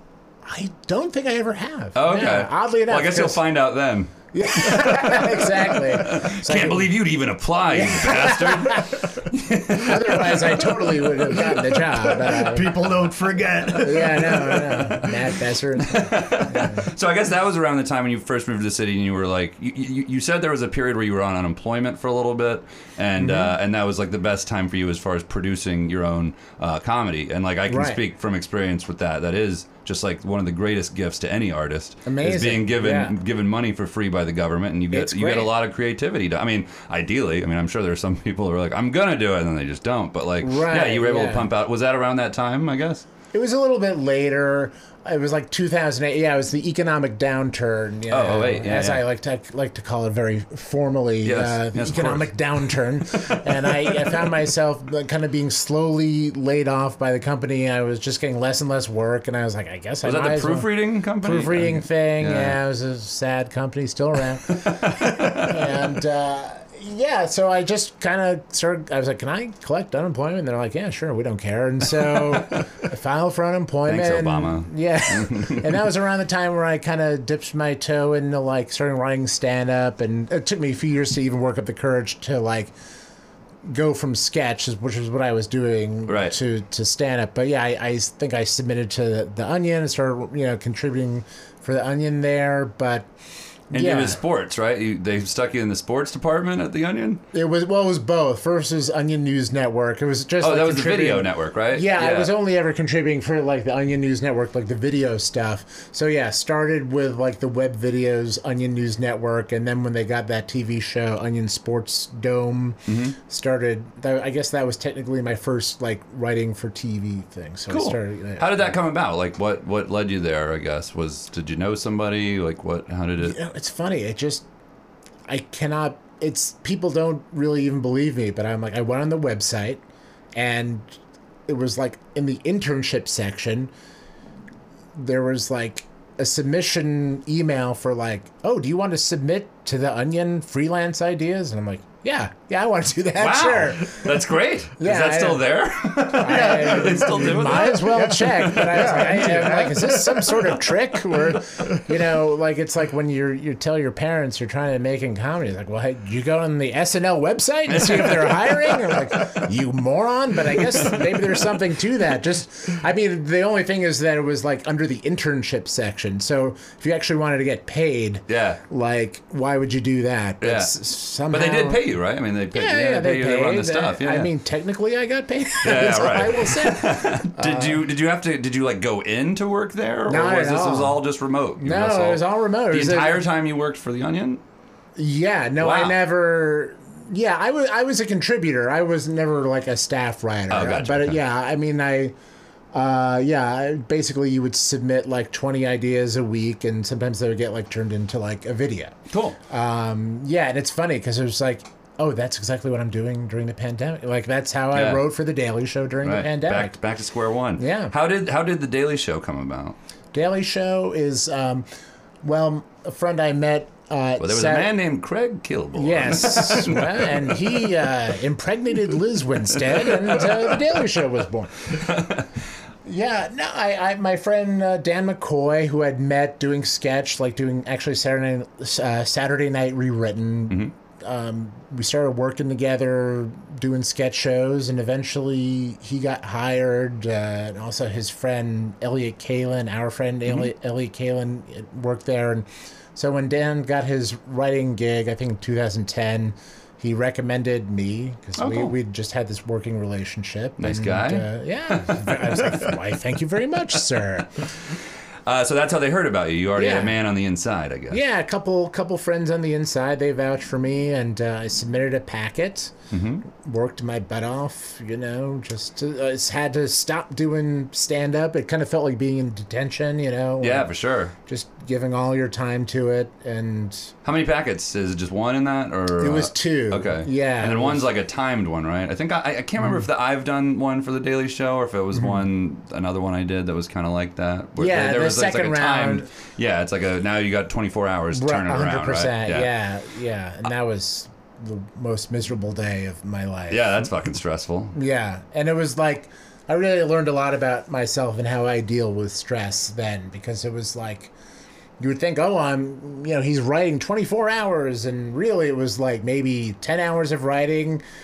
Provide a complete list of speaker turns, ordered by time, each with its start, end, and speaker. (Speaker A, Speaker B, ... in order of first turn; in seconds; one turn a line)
Speaker A: 0.4-3.4
Speaker B: 1.9-10.6
Speaker A: 4.3-6.9
Speaker A: 7.7-9.1
Speaker A: 9.7-12.8
Speaker C: 11.1-15.1
Speaker A: 13.8-16.9
Speaker B: 15.8-43.0
Speaker A: 23.2-23.5
Speaker A: 27.7-28.0
Speaker A: 32.0-33.1
Speaker A: 34.9-35.5
Speaker A: 40.4-41.5
Speaker A: 43.3-82.7
Speaker B: 48.1-49.0
Speaker B: 51.2-52.3
Speaker B: 60.0-62.6
Speaker B: 73.8-75.8
Speaker A: 83.6-93.1
Speaker B: 86.1-86.3
Speaker A: 93.7-94.2
Speaker B: 93.7-97.2
Speaker A: 97.3-118.8
Speaker B: 100.4-102.3
Speaker B: 112.9-113.2
Speaker B: 117.7-123.4
Speaker A: 123.2-124.4
Speaker A: 125.3-129.8
Speaker A: 130.3-133.7
Speaker A: 134.9-144.1
Speaker B: 143.2-148.9
Speaker A: 144.8-145.4
Speaker A: 146.1-171.8
Speaker C: 146.2-151.9
Speaker B: 157.7-159.0
Speaker B: 168.3-168.6
Speaker B: 170.4-170.7
Speaker B: 171.3-174.3
Speaker A: 172.5-177.8
Speaker B: 175.6-184.4
Speaker A: 180.1-181.0
Speaker A: 181.6-183.2
Speaker A: 185.0-192.1
Speaker B: 185.6-186.0
Speaker B: 190.5-191.2
Speaker A: 192.7-206.7
Speaker B: 199.1-199.4
Speaker B: 204.7-205.0
Speaker B: 206.0-209.8
Speaker A: 207.6-207.9
Speaker A: 210.1-211.7
Speaker A: 212.2-214.7
Speaker B: 214.2-217.3
Speaker A: 215.8-221.9
Speaker B: 219.8-220.7
Speaker B: 221.7-222.3
Speaker A: 222.8-254.4
Speaker B: 248.4-248.7
Speaker B: 250.6-252.6
Speaker B: 255.2-258.0
Speaker A: 256.6-256.9
Speaker A: 257.9-270.7
Speaker B: 262.9-263.2
Speaker B: 270.4-271.1
Speaker A: 271.2-273.9
Speaker B: 274.0-289.5
Speaker A: 276.0-277.8
Speaker A: 281.9-282.2
Speaker A: 284.6-286.1
Speaker A: 288.1-293.9
Speaker B: 293.5-294.7
Speaker A: 294.7-301.1
Speaker A: 301.8-307.8